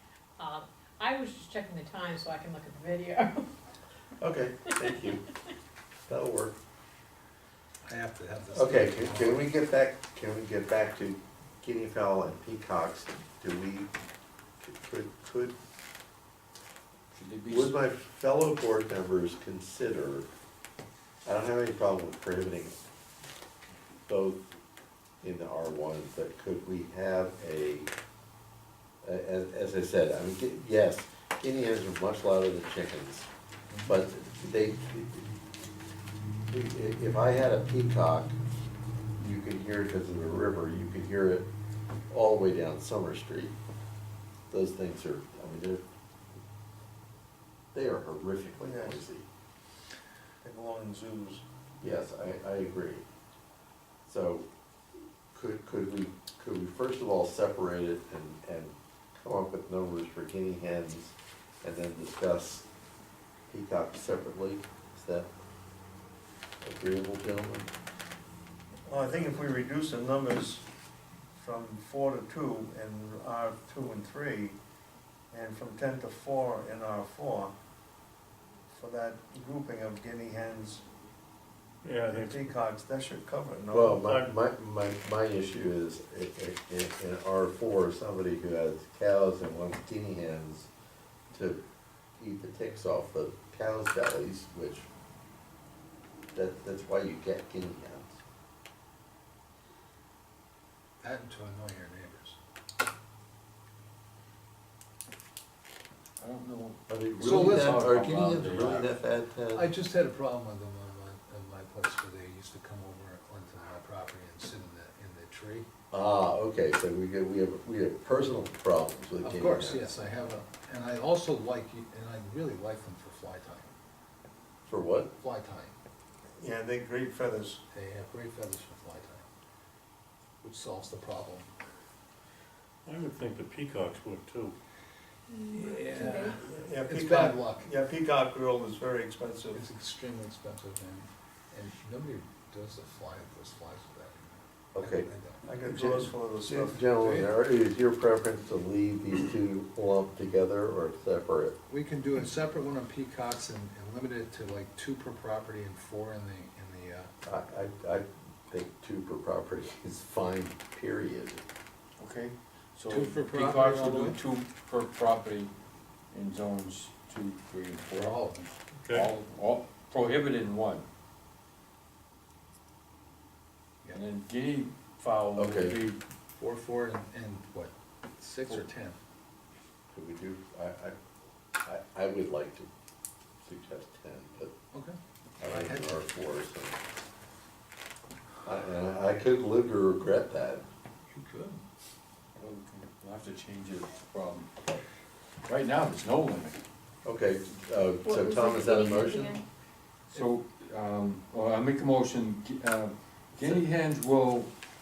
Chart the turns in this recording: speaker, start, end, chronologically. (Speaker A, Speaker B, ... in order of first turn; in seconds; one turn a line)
Speaker A: 0.4-3.5
Speaker B: 4.2-5.3
Speaker B: 6.1-6.6
Speaker C: 7.8-9.5
Speaker B: 8.5-13.9
Speaker B: 14.6-15.6
Speaker D: 17.1-17.8
Speaker B: 17.5-20.3
Speaker B: 21.2-22.8
Speaker B: 24.1-24.6
Speaker B: 25.2-27.9
Speaker B: 29.0-33.3
Speaker C: 33.7-34.0
Speaker B: 33.8-35.3
Speaker B: 36.5-38.3
Speaker B: 39.2-41.5
Speaker B: 42.1-43.5
Speaker B: 44.5-45.8
Speaker B: 47.7-49.2
Speaker E: 48.6-49.0
Speaker E: 50.4-51.4
Speaker B: 51.8-53.0
Speaker B: 54.0-54.5
Speaker B: 55.3-62.7
Speaker B: 63.5-65.3
Speaker B: 66.6-67.7
Speaker E: 68.8-70.6
Speaker E: 71.3-74.6
Speaker E: 75.3-77.5
Speaker E: 78.7-80.8
Speaker F: 81.8-82.5
Speaker E: 82.1-84.0
Speaker B: 83.7-90.7
Speaker F: 83.9-84.3
Speaker B: 91.3-91.6
Speaker B: 92.2-94.8
Speaker B: 96.3-98.2
Speaker C: 101.0-102.4
Speaker D: 106.2-108.9
Speaker B: 106.9-109.7
Speaker C: 107.2-108.1
Speaker C: 109.5-115.7
Speaker B: 115.9-120.0
Speaker C: 119.2-123.7
Speaker B: 124.7-125.1
Speaker C: 125.2-125.8
Speaker E: 126.4-127.6
Speaker C: 127.7-129.2
Speaker C: 130.4-131.5
Speaker F: 132.8-134.6
Speaker A: 135.3-136.4
Speaker C: 135.5-137.7
Speaker E: 136.5-139.6
Speaker C: 139.5-145.4
Speaker B: 144.7-145.1
Speaker E: 145.4-146.8
Speaker B: 145.6-151.6
Speaker C: 147.0-147.3
Speaker C: 151.7-157.1
Speaker B: 157.2-161.4
Speaker D: 162.0-165.5
Speaker C: 162.9-164.2
Speaker D: 166.1-168.2
Speaker C: 167.9-168.6
Speaker F: 168.8-169.1
Speaker D: 168.9-170.8
Speaker D: 173.9-176.0
Speaker B: 175.3-175.8
Speaker C: 176.3-179.0
Speaker B: 179.9-180.9
Speaker B: 181.6-182.7
Speaker B: 183.4-184.5
Speaker C: 184.7-186.1
Speaker B: 185.4-186.8
Speaker B: 188.4-190.6
Speaker C: 191.1-191.6
Speaker D: 192.3-194.5
Speaker D: 195.5-196.6
Speaker B: 197.0-199.4
Speaker A: 198.0-199.4
Speaker D: 200.1-204.5